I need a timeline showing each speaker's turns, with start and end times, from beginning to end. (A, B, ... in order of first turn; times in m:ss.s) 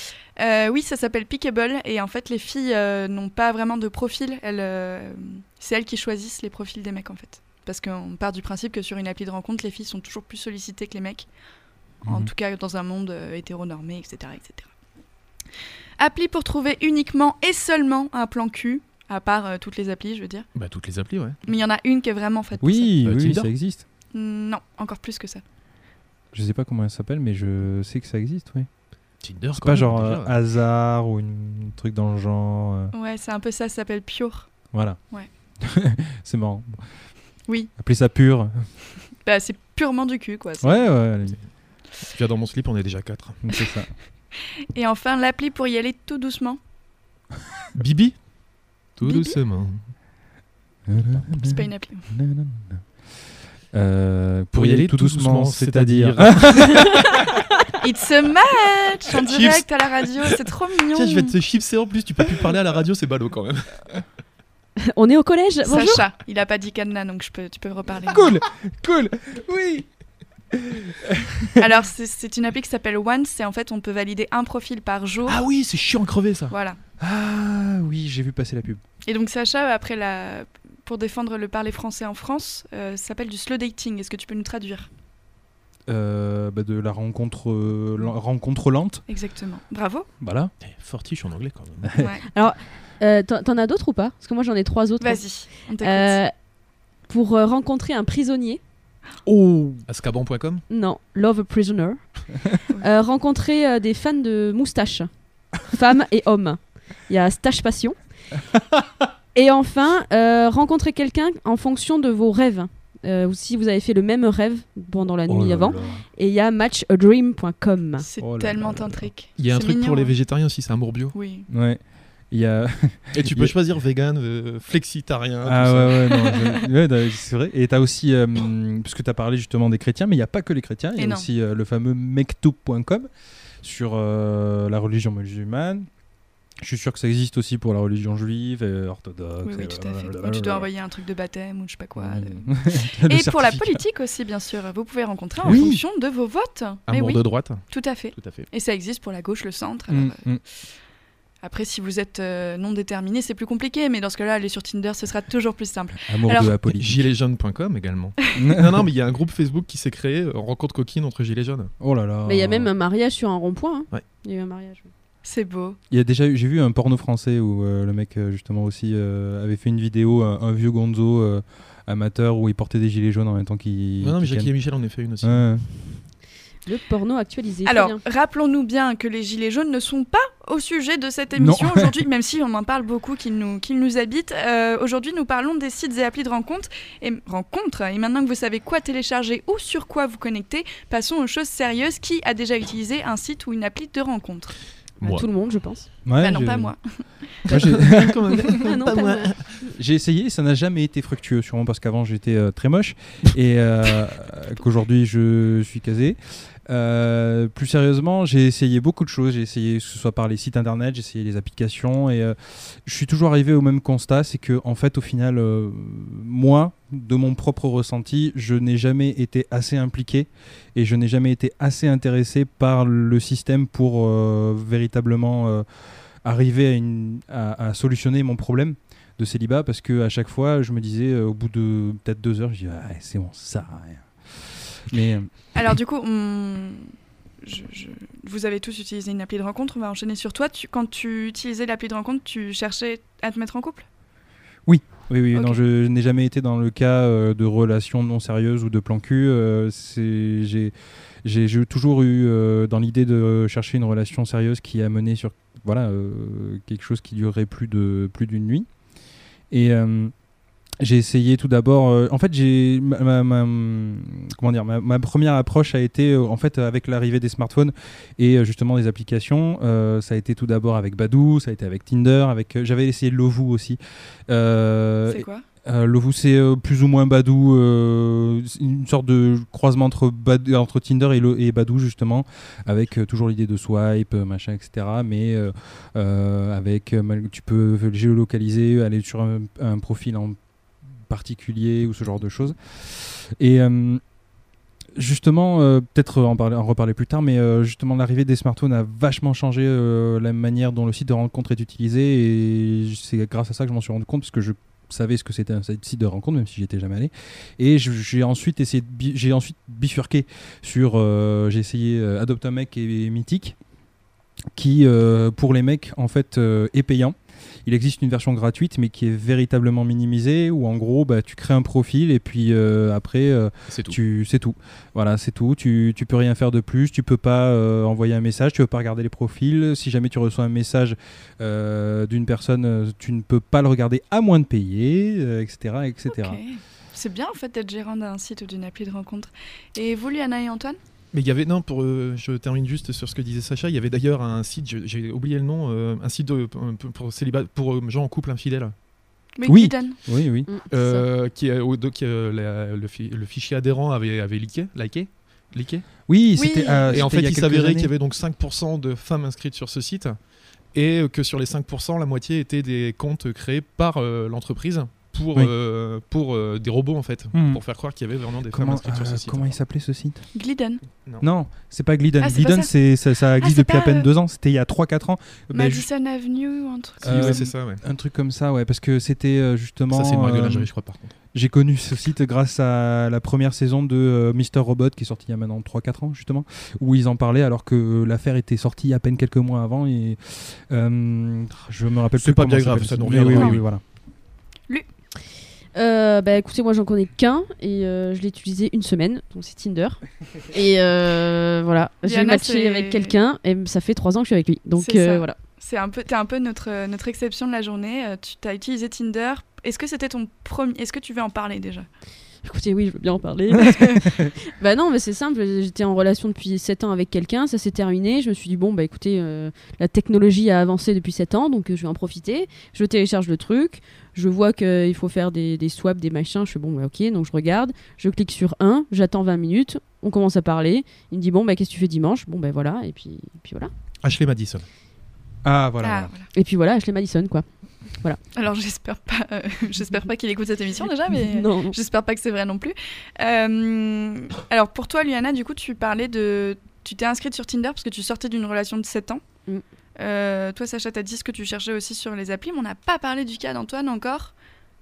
0:00.4-0:11.3 A
0:12.0-0:14.7 A
0:12.1-0:12.3 B
0:16.0-0:20.5 A
0:20.6-0:21.4 C
0:21.5-0:23.0 A
0:22.6-0:23.8 B
0:23.0-0:23.5 C
0:24.1-0:25.4 A
0:26.3-0:28.8 B
0:29.2-0:30.4 C
0:29.6-0:32.9 B
0:32.9-0:35.3 A
0:34.7-0:38.8 B
0:37.5-0:37.7 A
0:39.2-0:41.0 A
0:40.6-0:41.4 B
0:42.1-0:43.4 C
0:43.4-0:43.9 B
0:44.7-0:46.6 A
0:47.8-0:49.9 C
0:49.0-0:49.4 A
0:50.9-0:57.0 B
0:51.4-0:52.1 A
0:54.5-0:57.0 C
0:57.8-1:01.3 A
0:59.3-1:00.3 C
1:00.9-1:04.0 C
1:04.9-1:06.0 D
1:05.7-1:08.3 A
1:08.1-1:11.4 B
1:11.6-1:15.4 A
1:15.2-1:16.5 C
1:16.5-1:16.8 A
1:17.0-1:18.8 B
1:19.0-1:24.9 A
1:25.9-1:29.0 B
1:29.1-1:30.1 A
1:30.2-1:30.5 B
1:30.6-1:31.9 C
1:31.8-1:32.1 B
1:32.0-1:32.2 A
1:32.3-1:36.3 D
1:35.0-1:36.2 A
1:37.0-1:38.6 D
1:39.3-1:39.8 B
1:39.8-1:40.6 C
1:40.7-1:48.0 D
1:49.4-1:58.1 D
1:55.3-1:56.0 B
1:58.0-2:00.1 A
1:58.2-1:59.1 B
1:59.4-2:01.2 C
2:01.1-2:01.5 A
2:01.5-2:03.5 B
2:03.2-2:06.4 C
2:05.4-2:13.1 B
2:06.1-2:06.4 A
2:11.0-2:11.3 A
2:13.6-2:16.0 B
2:16.6-2:20.7 B
2:19.4-2:30.2 A
2:22.0-2:23.8 B
2:25.4-2:25.7 C
2:25.4-2:25.8 B
2:26.9-2:28.5 C
2:29.9-2:30.4 B
2:31.4-2:36.5 A
2:36.1-2:37.0 B
2:36.5-2:41.7 C
2:38.4-2:38.7 B
2:41.8-2:42.7 B
2:42.3-2:44.9 D
2:45.2-2:45.8 A
2:45.9-2:54.6 B
2:54.0-2:55.5 C
2:55.2-2:55.7 B
2:56.7-2:58.0 D
2:57.6-3:14.6 A
3:01.4-3:01.9 B
3:15.0-3:15.3 C
3:15.0-3:15.9 D
3:16.0-3:18.4 B
3:16.2-3:17.2 A
3:17.5-3:19.6 C
3:18.4-3:19.5 D
3:19.6-3:45.6 B
3:46.2-3:55.5 B
3:55.5-3:56.9 A
3:57.4-4:03.8 A
4:04.6-4:10.7 B
4:05.3-4:05.6 A
4:11.2-4:18.7 B
4:19.5-4:20.2 B
4:20.8-4:50.4 B
4:35.1-4:35.4 A
4:51.1-4:54.2 B
4:55.0-5:13.6 B
5:14.6-5:36.4 B
5:23.7-5:24.0 C
5:36.1-5:40.8 A
5:41.1-5:48.7 C
5:49.4-5:50.0 A
5:49.4-5:50.5 B
5:50.5-5:51.0 D
5:50.7-5:56.0 C
5:56.1-5:57.9 B
5:56.4-5:57.1 A
5:56.9-6:09.6 C
6:07.3-6:07.6 B
6:08.5-6:10.2 B
6:10.3-6:10.8 A
6:11.2-6:15.9 B
6:12.2-6:12.7 A
6:13.4-6:14.1 A
6:15.5-6:17.4 A
6:17.0-6:20.7 B
6:17.0-6:17.8 C
6:19.9-6:21.1 C
6:21.3-6:33.8 B
6:32.2-6:33.6 C
6:33.3-6:33.6 A
6:35.8-6:45.4 D
6:42.0-6:43.2 A
6:44.8-6:51.9 A
6:52.4-7:13.7 D
7:14.0-7:14.7 C
7:15.4-7:16.1 B
7:15.8-7:16.3 A
7:16.3-7:18.2 D
7:18.3-7:29.4 A
7:21.3-7:21.8 D
7:30.0-7:34.3 A